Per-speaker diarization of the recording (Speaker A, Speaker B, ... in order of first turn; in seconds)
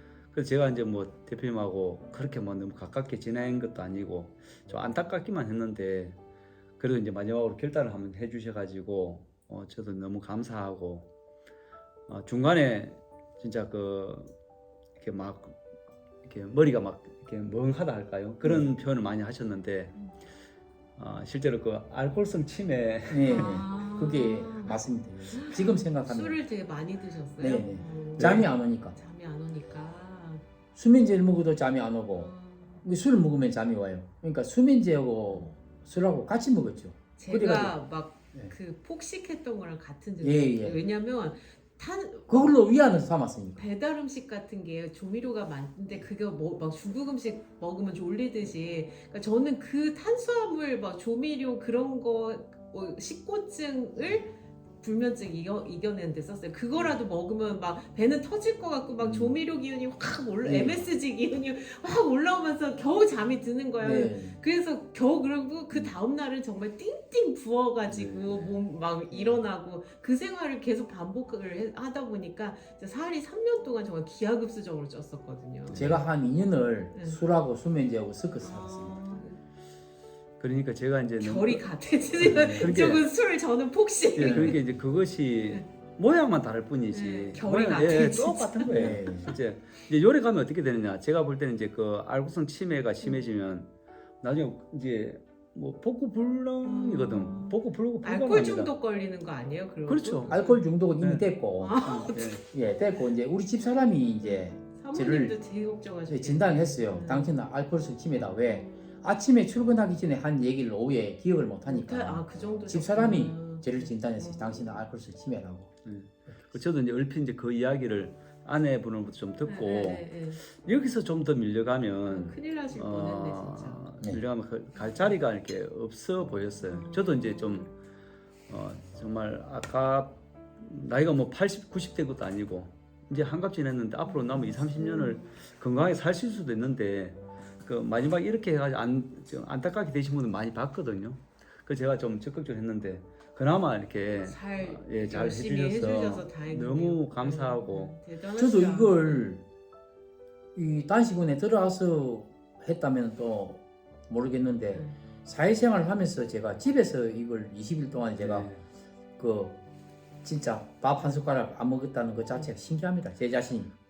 Speaker A: 0.3-6.2, 6.8-11.1, 12.1-14.3, 15.0-15.6, 16.2-19.9, 21.0-23.5, 28.2-28.5, 59.0-59.4, 67.8-68.6, 75.7-76.0, 80.4-81.6, 82.2-83.0, 84.2-93.7, 94.2-98.7, 99.9-100.4, 101.0-101.3, 101.8-102.4, 115.8-127.7, 128.5-148.0, 158.2-158.6
Speaker B: 18.4-18.7, 23.1-26.4, 27.4-29.0, 30.7-32.3, 32.8-37.8, 40.2-40.8, 42.3-43.6, 60.4-60.8, 63.8-64.4, 69.1-69.4, 75.7-79.0, 82.2-82.7, 84.2-84.6, 88.7-89.3, 100.3-105.4, 106.1-115.7, 148.4-149.4, 150.5-158.5, 159.2-159.6, 160.2-163.7
Speaker C: 23.3-24.8, 25.3-30.4, 32.2-32.8, 37.2-42.5, 43.6-75.8, 76.9-77.2, 78.4-79.4, 81.2-84.6, 86.9-89.0, 96.6-100.6, 101.6-102.4, 104.2-107.3, 108.4-109.0, 111.7-114.8, 119.5-120.4, 122.0-123.8, 124.7-125.2, 126.6-127.7, 134.0-135.3, 144.0-149.3